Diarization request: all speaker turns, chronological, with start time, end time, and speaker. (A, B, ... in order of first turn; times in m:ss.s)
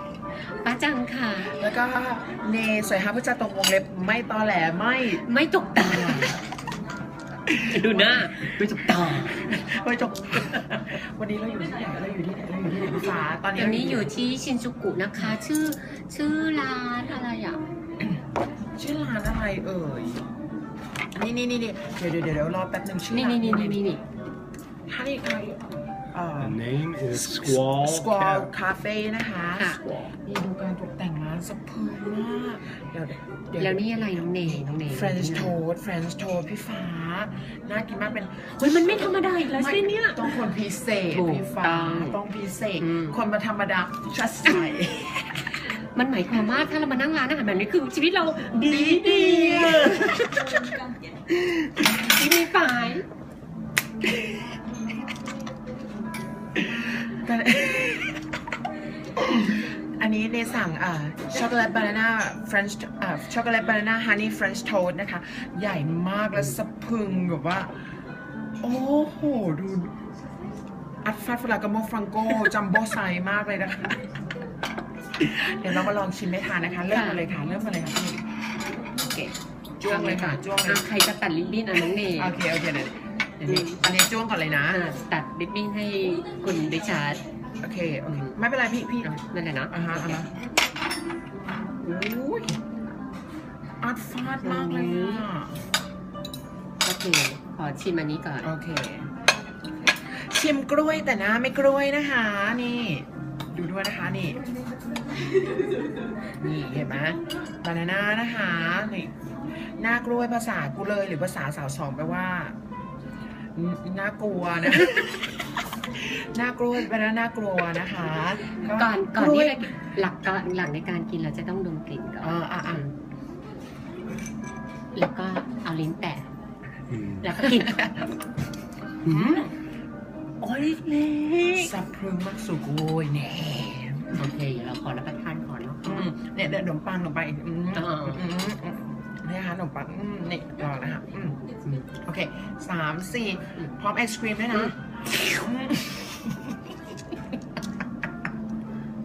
0:00.6-0:01.6 A
0:01.4-0:05.2 B
0:05.1-0:06.4 A
0:05.8-0:06.3 B
0:07.5-0:14.1 B
0:07.7-0:09.5 A
0:13.5-0:17.6 A
0:18.8-0:20.3 B
0:21.1-0:23.8 B
0:23.1-0:24.0 A
0:24.9-0:26.6 B
0:26.4-0:28.5 C
0:27.4-0:45.4 B
0:29.6-0:30.1 A
0:33.6-0:35.6 A
0:38.6-0:40.4 A
0:41.1-0:42.2 A
0:42.8-0:43.2 A
0:44.5-0:44.8 A
0:45.9-0:50.6 A
0:48.6-0:50.5 B
0:51.9-0:53.0 A
0:56.6-0:58.2 B
0:59.2-1:07.7 B
1:08.6-1:09.9 B
1:11.0-1:14.0 B
1:15.2-1:18.2 B
1:16.9-1:17.2 A
1:19.8-1:20.9 B
1:19.9-1:22.4 A
1:22.0-1:24.8 B
1:23.4-1:24.0 A
1:24.7-1:27.2 A
1:27.6-1:29.1 B
1:29.0-1:30.2 A
1:29.7-1:30.3 B
1:31.8-1:32.6 B
1:33.8-1:35.6 B
1:34.4-1:35.2 A
1:36.8-1:38.5 A
1:38.4-1:39.1 B
1:40.0-1:44.4 B
1:46.4-1:49.1 B
1:49.8-1:52.6 B
1:53.5-1:55.3 B
1:56.0-1:59.8 B
1:58.7-2:02.9 A
2:02.2-2:02.8 B
2:04.9-2:06.3 A
2:07.2-2:08.0 A
2:07.4-2:07.8 B
2:09.0-2:09.5 B
2:09.1-2:09.4 A
2:10.4-2:11.7 A
2:11.5-2:14.3 B
2:14.1-2:16.1 A
2:15.8-2:21.4 B
2:17.8-2:18.3 A
2:22.0-2:26.5 B